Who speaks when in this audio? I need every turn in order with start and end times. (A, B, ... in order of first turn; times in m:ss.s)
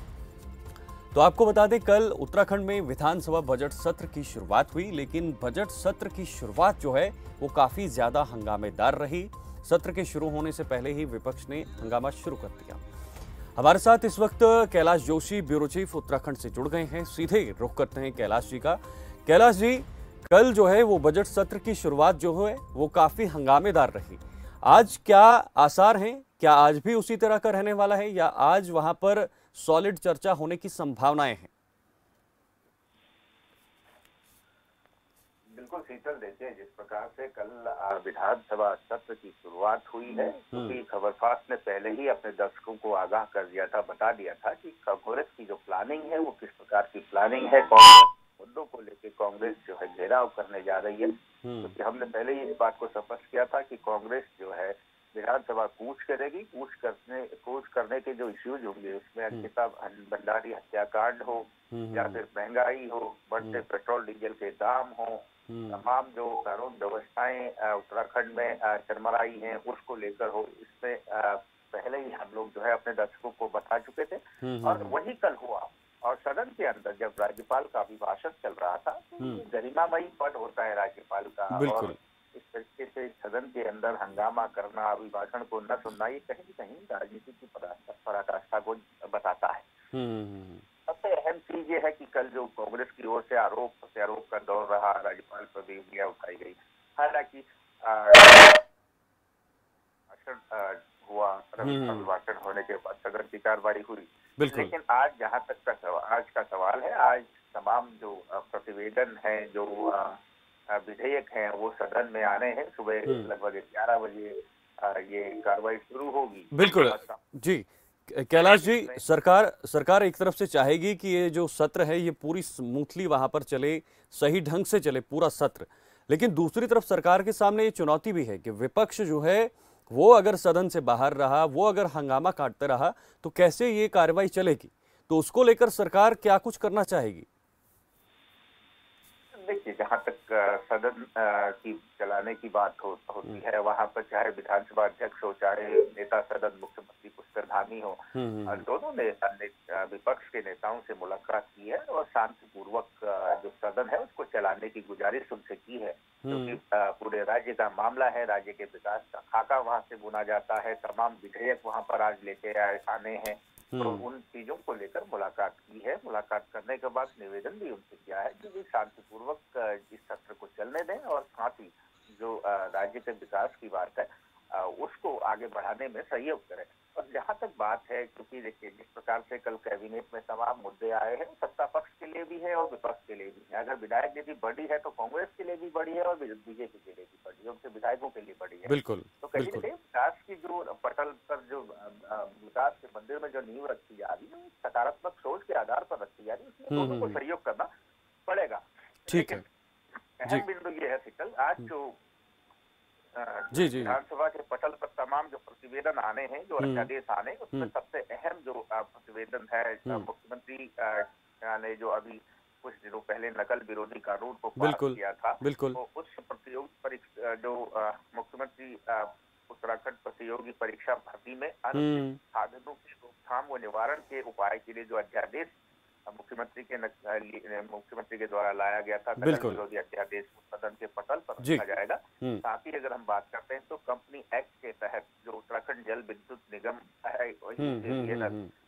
0:01.1-0:12.8 A
0:13.6-0:31.5 A
0:35.5-1:29.7 B
0:51.4-0:51.7 A
1:01.7-1:02.2 A
1:05.5-1:05.8 A
1:14.4-1:14.9 A
1:21.5-1:21.9 A
1:29.9-1:30.6 A
1:30.9-1:38.6 B
1:40.1-1:50.2 B
1:41.6-1:42.1 A
1:44.4-1:44.7 A
1:50.7-1:57.2 B
1:56.5-2:17.3 A
1:58.3-1:59.0 B
2:19.4-3:17.7 B
2:28.1-2:28.6 A
2:36.2-2:36.6 A
2:43.7-2:44.0 A
3:08.6-3:09.7 A
3:16.7-3:17.2 A
3:18.3-3:19.4 B
3:19.1-3:19.4 A
3:20.2-3:22.0 B
3:23.1-3:45.5 B
3:23.5-3:24.0 A
3:26.6-3:26.9 A
3:34.6-3:35.8 A
3:41.7-3:42.2 A
3:46.1-3:58.4 B
3:49.2-3:49.6 A
3:57.6-3:58.5 A